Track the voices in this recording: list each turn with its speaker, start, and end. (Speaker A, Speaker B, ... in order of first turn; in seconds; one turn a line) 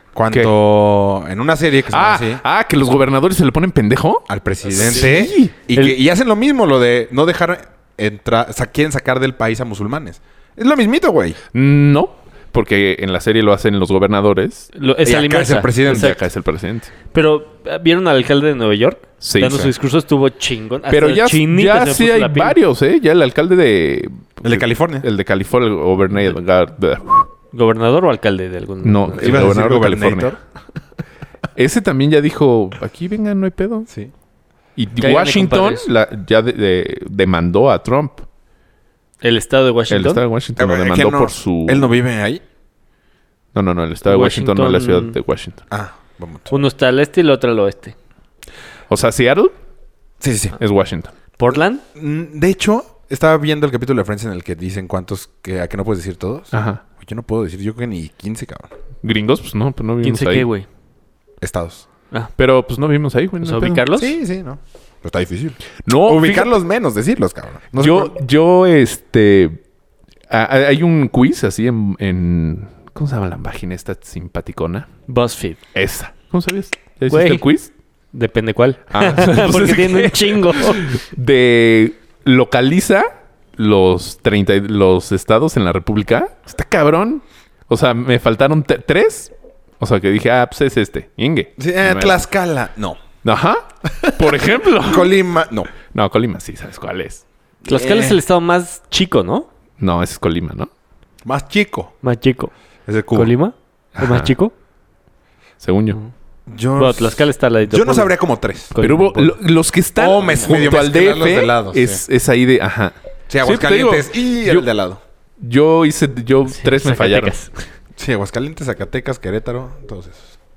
Speaker A: 0.1-2.4
Speaker B: 1.9-5.5
Speaker A: 4.3-11.4
Speaker B: 11.5-14.7
Speaker C: 14.7-16.2
Speaker A: 15.1-16.2
Speaker B: 15.9-16.9
Speaker C: 17.1-22.6
Speaker B: 19.2-19.7
Speaker B: 20.9-27.3
Speaker A: 24.4-25.1
Speaker C: 27.5-29.5
Speaker B: 28.8-30.4
Speaker A: 29.2-30.4
Speaker B: 31.6-33.9
Speaker B: 34.8-38.3
Speaker C: 35.0-35.9
Speaker C: 39.2-40.2
Speaker B: 39.9-41.9
Speaker A: 40.6-42.4
Speaker B: 43.5-45.6
Speaker C: 44.1-45.2
Speaker A: 45.7-46.5
Speaker C: 46.5-48.0
Speaker B: 48.9-49.5
Speaker A: 50.2-50.6
Speaker B: 50.6-51.1
Speaker C: 51.4-51.8
Speaker A: 52.0-58.7
Speaker B: 56.5-56.8
Speaker B: 59.0-60.5
Speaker C: 60.0-60.7
Speaker A: 61.4-61.8
Speaker B: 62.4-63.9
Speaker C: 63.4-64.2
Speaker A: 64.0-68.1
Speaker B: 65.8-66.6
Speaker B: 67.8-69.6
Speaker B: 70.3-74.9
Speaker C: 75.1-75.6
Speaker B: 75.8-77.7
Speaker C: 77.1-77.5
Speaker C: 78.1-81.0
Speaker B: 78.9-92.2
Speaker A: 91.6-93.0
Speaker B: 93.2-95.2
Speaker A: 93.9-95.7
Speaker B: 95.8-97.2
Speaker A: 97.6-98.2
Speaker C: 97.7-99.5
Speaker B: 99.8-100.7
Speaker A: 101.2-101.9
Speaker C: 102.0-102.5
Speaker A: 102.9-103.3
Speaker C: 103.1-104.5
Speaker B: 104.0-104.3
Speaker B: 105.6-106.0
Speaker A: 106.5-108.7
Speaker C: 106.8-108.2
Speaker C: 108.7-109.3
Speaker B: 108.8-114.7
Speaker A: 110.0-112.0
Speaker A: 113.3-115.0
Speaker B: 115.4-117.3
Speaker C: 116.5-117.7
Speaker A: 118.0-120.3